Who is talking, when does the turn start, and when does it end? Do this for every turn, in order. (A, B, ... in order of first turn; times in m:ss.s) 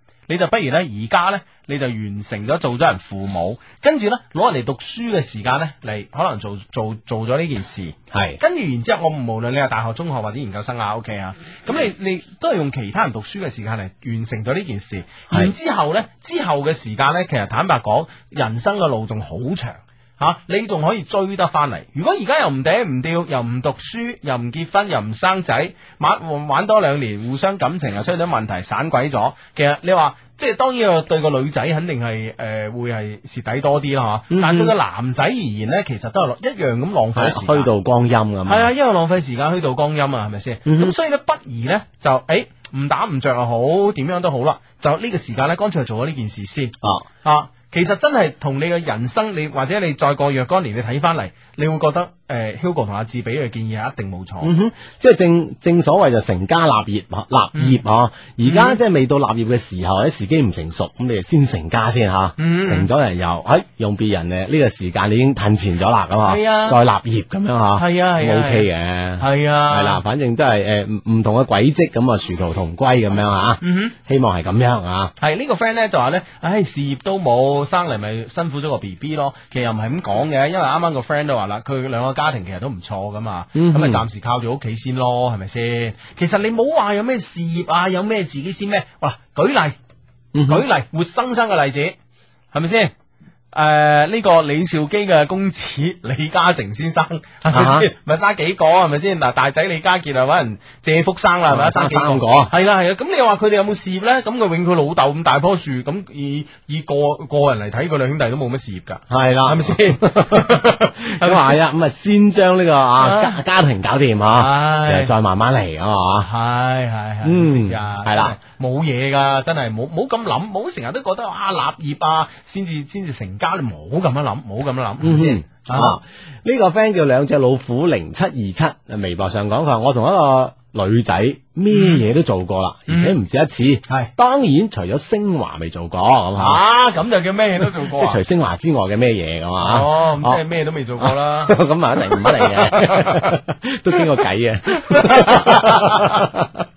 0:00.3-0:37.7 A
0:08.1-0:08.4 B
0:34.3-0:34.7 B
0:37.2-0:38.7 B
0:38.4-0:54.5 A
0:40.6-0:40.9 B
0:54.4-1:15.1 B
0:57.5-0:57.8 A
0:58.4-0:58.8 A
1:02.4-1:02.9 A
1:06.2-1:06.8 A
1:07.7-1:10.0 A
1:13.6-1:14.0 A
1:15.2-1:29.8 A
1:23.5-1:24.0 B
1:30.3-1:30.6 B
1:30.4-1:32.0 A
1:32.5-1:32.9 A
1:33.5-1:51.6 A
1:37.5-1:37.9 B
1:41.5-1:42.5 B
1:49.1-1:56.3 B
1:53.0-1:53.4 A
1:54.3-1:55.1 A
1:56.2-2:06.0 A
1:57.2-1:58.4 B
2:05.0-2:16.6 B
2:11.7-2:12.0 A
2:12.9-2:13.2 A
2:16.4-2:18.2 A
2:17.6-2:20.4 B
2:19.6-2:23.4 A
2:21.0-2:26.5 B
2:24.8-2:26.3 A